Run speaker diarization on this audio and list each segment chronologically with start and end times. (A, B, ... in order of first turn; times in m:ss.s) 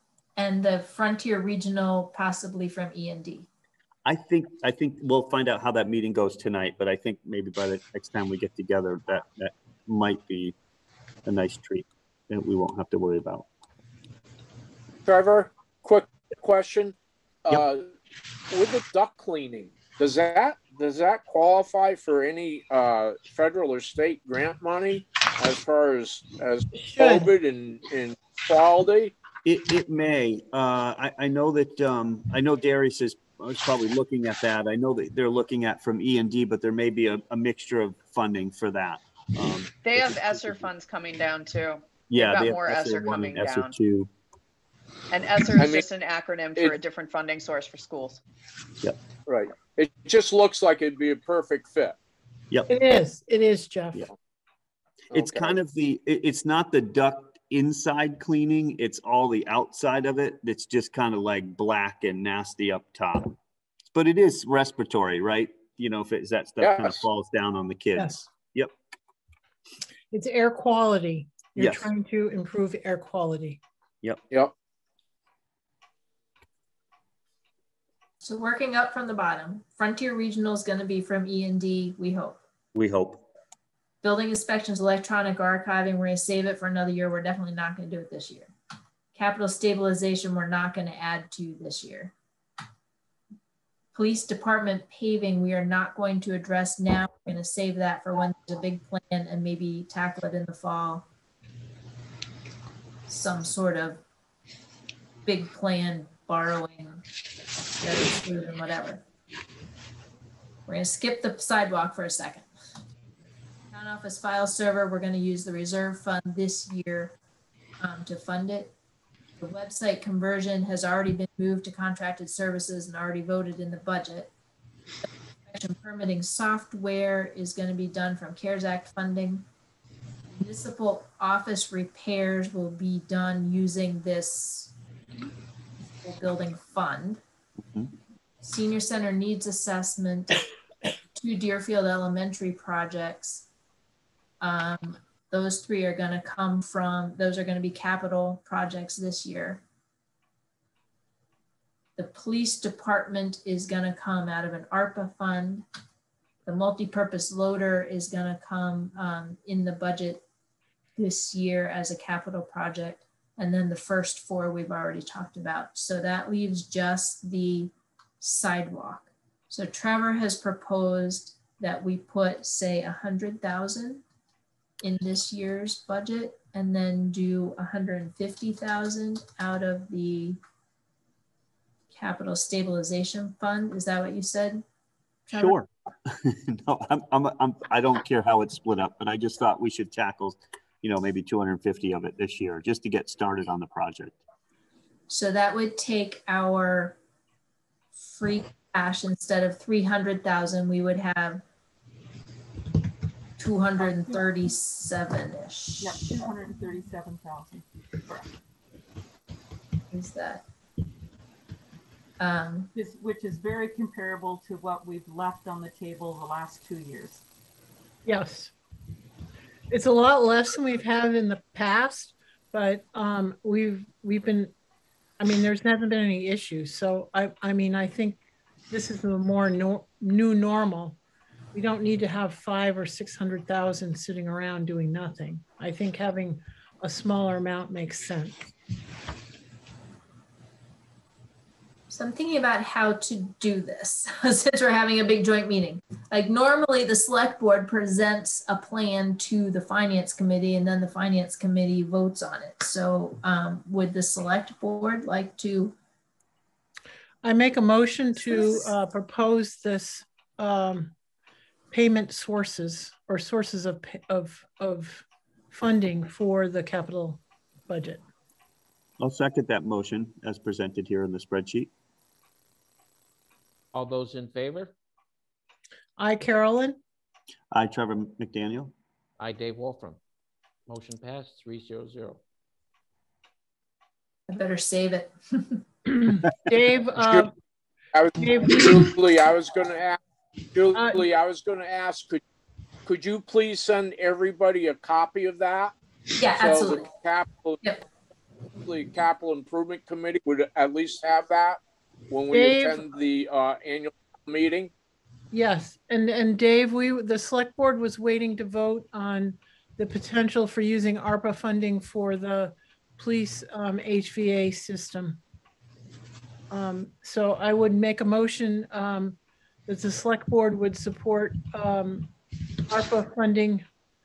0:00.4-0:03.5 A
0:04.0-0:10.6 B
0:11.3-0:13.5 B
0:15.1-0:17.0 C
0:17.5-0:17.9 C
0:18.5-0:29.1 C
0:26.7-0:27.3 D
0:29.4-0:40.7 B
0:39.8-0:43.7 E
0:42.1-0:44.1 B
0:45.1-0:48.2 E
0:49.3-0:52.0 C
0:52.7-0:54.0 D
0:55.1-0:55.6 C
0:55.1-1:03.4 B
1:03.9-1:08.7 B
1:06.6-1:07.1 C
1:08.0-1:08.3 D
1:10.1-1:13.6 D
1:11.6-1:11.9 B
1:18.2-1:22.4 A
1:22.7-1:23.2 B
1:24.0-1:28.5 A
1:29.2-1:32.1 A
1:33.9-1:41.0 A
1:43.1-1:44.0 A
1:45.2-1:47.0 A
1:47.8-1:49.0 A
1:50.7-1:52.5 A
1:53.7-1:57.2 A
1:57.8-1:58.7 A
1:59.4-2:04.3 A
2:05.5-2:09.4 A
2:10.3-2:14.7 A
2:16.0-2:17.2 A
2:18.4-2:20.4 A
2:21.1-2:23.4 A
2:24.4-2:29.6 A
2:32.0-2:35.6 A
2:36.5-2:40.2 A
2:41.0-2:54.0 A
2:54.8-3:00.4 A
3:01.9-3:04.6 A
3:05.3-3:05.6 A
3:05.3-3:14.2 B
3:15.1-3:17.0 A
3:18.0-3:21.4 A
3:23.4-3:26.1 A
3:25.8-3:28.3 F
3:29.9-3:30.4 A
3:32.2-3:32.7 A
3:32.8-3:37.2 F
3:38.1-3:38.5 D
3:39.7-3:44.5 D
3:45.2-3:48.2 D
3:48.7-3:51.0 D
3:51.5-3:58.4 D
4:01.9-4:15.8 A
4:17.2-4:20.9 D
4:21.7-4:28.0 D
4:29.0-4:31.7 B
4:33.7-4:34.7 G
4:36.0-4:36.8 D
4:37.5-4:38.7 B
4:39.2-4:40.0 G
4:40.7-4:42.2 G
4:44.3-4:45.6 A
4:46.1-4:47.3 D
4:47.9-4:50.0 C
4:48.2-4:48.9 D
4:50.6-4:52.2 C
4:50.7-4:51.0 D
4:52.8-4:55.7 C
4:56.2-4:56.9 A
4:56.3-4:57.6 C
4:58.6-5:01.6 C
5:02.1-5:04.7 C
5:02.3-5:02.9 D
5:05.3-5:15.2 D
5:16.5-5:22.1 D
5:22.7-5:23.6 D